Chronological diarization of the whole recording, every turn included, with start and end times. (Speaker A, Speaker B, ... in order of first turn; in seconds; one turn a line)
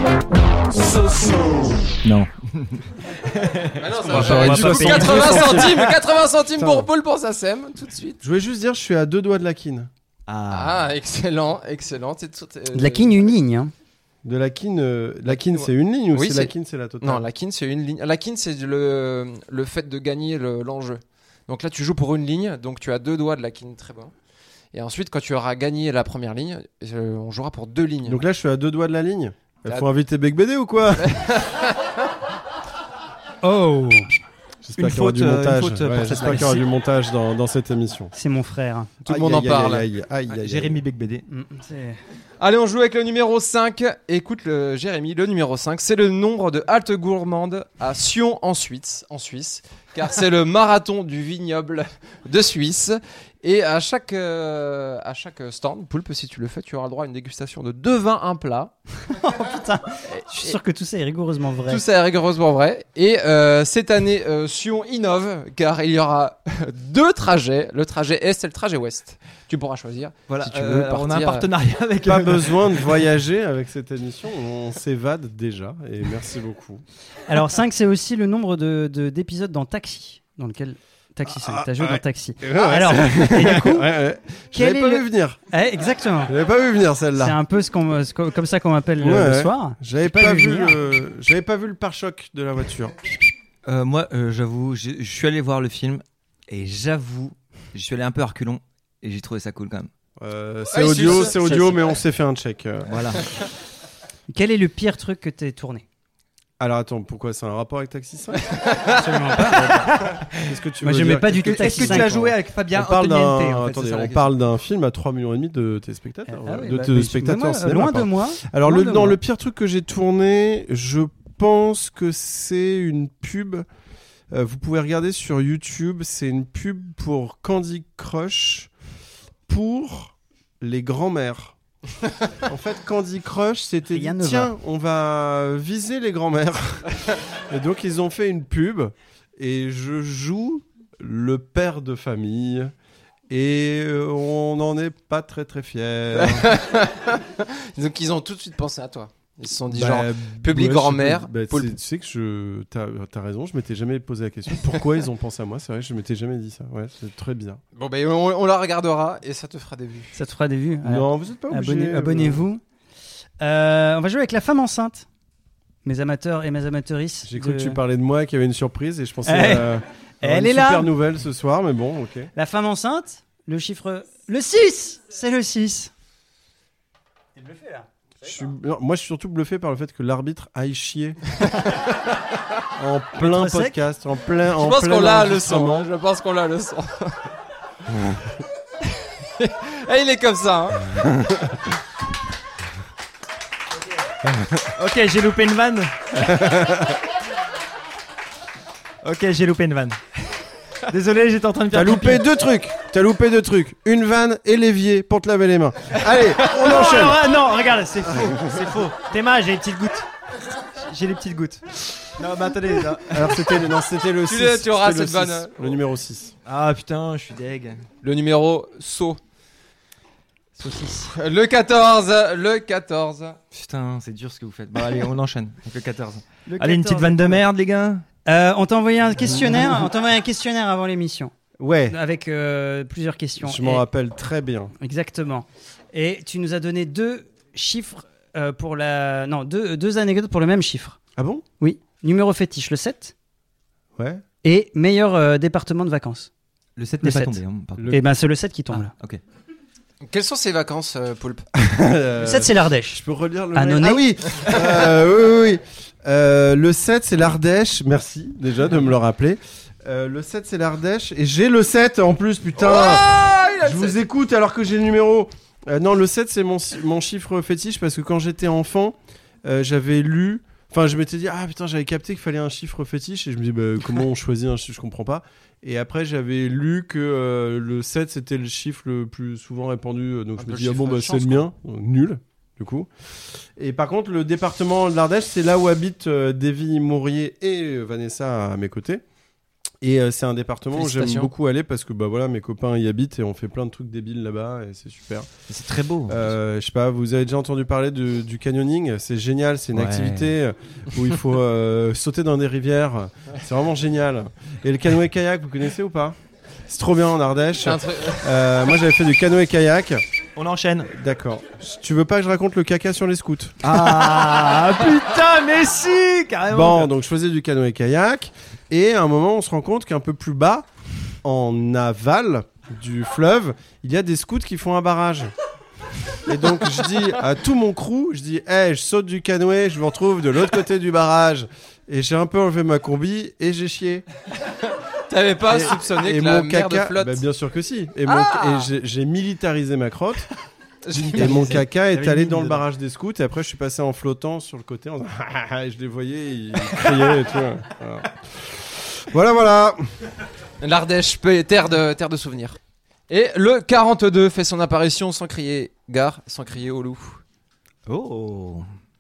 Speaker A: 1.0-1.8
Speaker B: 2.0-5.9
Speaker A: 3.8-8.2
Speaker C: 4.0-5.6
Speaker D: 4.2-5.9
Speaker D: 6.6-6.9
Speaker D: 8.2-9.9
Speaker B: 10.3-10.8
Speaker A: 10.5-13.3
Speaker C: 12.7-13.7
Speaker D: 14.2-17.3
Speaker A: 15.3-24.1
Speaker A: 24.7-28.2
Speaker D: 28.1-31.3
Speaker A: 31.0-31.9
Speaker C: 33.4-34.1
Speaker D: 34.6-38.1
Speaker B: 34.8-36.6
Speaker C: 38.1-38.9
Speaker A: 39.0-39.9
Speaker D: 39.0-40.8
Speaker B: 40.3-41.2
Speaker C: 41.3-42.0
Speaker A: 42.4-58.7
Speaker C: 59.1-61.8
Speaker A: 60.1-60.6
Speaker A: 61.7-71.5
Speaker B: 70.3-72.9
Speaker D: 72.0-76.8
Speaker C: 77.3-83.9
Speaker D: 81.3-85.4
Speaker C: 84.5-86.3
Speaker D: 86.3-87.4
Speaker C: 87.2-90.8
Speaker D: 89.0-93.0
Speaker B: 93.7-99.9
Speaker D: 100.2-103.2
Speaker A: 100.7-101.8
Speaker B: 102.9-103.3
Speaker C: 104.3-105.8
Speaker D: 106.6-108.6
Speaker A: 108.5-109.0
Speaker C: 109.0-110.0
Speaker D: 109.5-123.7
Speaker C: 110.8-112.2
Speaker B: 111.4-114.3
Speaker C: 116.3-119.2
Speaker D: 124.3-128.7
Speaker D: 129.5-131.6
Speaker D: 132.4-142.7
Speaker C: 133.9-134.5
Speaker D: 143.3-146.5
Speaker A: 146.1-151.7
Speaker D: 149.7-157.6
Speaker A: 157.8-160.2
Speaker C: 160.2-162.6
Speaker D: 160.8-162.4
Speaker C: 163.4-165.1
Speaker C: 165.8-167.8
Speaker D: 167.3-172.3
Speaker C: 169.3-170.9
Speaker C: 172.3-175.9
Speaker C: 177.4-177.9
Speaker D: 178.2-181.2
Speaker A: 181.4-181.9
Speaker D: 182.8-185.9
Speaker C: 183.2-183.8
Speaker A: 184.6-187.2
Speaker A: 189.4-191.0
Speaker B: 194.8-195.9
Speaker D: 196.3-196.9
Speaker B: 199.0-200.0
Speaker B: 200.9-202.2
Speaker D: 201.7-207.3
Speaker C: 206.5-208.4
Speaker B: 208.0-210.0
Speaker D: 208.1-208.5
Speaker B: 210.9-213.4
Speaker D: 213.1-216.3
Speaker A: 214.3-215.8
Speaker B: 216.5-217.8
Speaker A: 218.0-219.2
Speaker C: 220.6-221.1
Speaker A: 221.1-223.4
Speaker B: 223.5-228.1
Speaker C: 226.5-227.4
Speaker C: 228.2-231.3
Speaker D: 231.6-232.0
Speaker C: 231.9-233.8
Speaker D: 233.4-234.7
Speaker C: 234.8-241.0
Speaker D: 241.2-241.4
Speaker C: 241.6-243.1
Speaker D: 244.0-244.2
Speaker C: 244.4-246.3
Speaker B: 246.8-248.0
Speaker C: 247.0-248.9
Speaker D: 247.8-248.0
Speaker B: 248.7-249.2
Speaker A: 250.0-251.4
Speaker D: 251.6-282.9
Speaker C: 252.2-253.0
Speaker C: 253.5-254.1
Speaker A: 262.6-264.0
Speaker A: 280.4-281.4
Speaker D: 283.6-289.0
Speaker D: 289.8-295.3
Speaker A: 290.8-291.3
Speaker B: 295.5-296.3
Speaker D: 296.1-306.2
Speaker B: 299.7-300.4
Speaker D: 306.7-310.0
Speaker A: 307.6-308.5
Speaker B: 310.4-310.9
Speaker D: 310.9-314.8
Speaker B: 313.6-316.9
Speaker D: 316.5-320.7
Speaker D: 321.2-325.3
Speaker D: 326.3-334.1
Speaker A: 335.1-337.2
Speaker D: 335.5-340.3
Speaker A: 338.1-338.7
Speaker A: 340.9-341.6
Speaker B: 341.0-342.6
Speaker D: 341.0-349.8
Speaker A: 350.6-352.6
Speaker A: 353.1-357.2
Speaker B: 357.9-358.6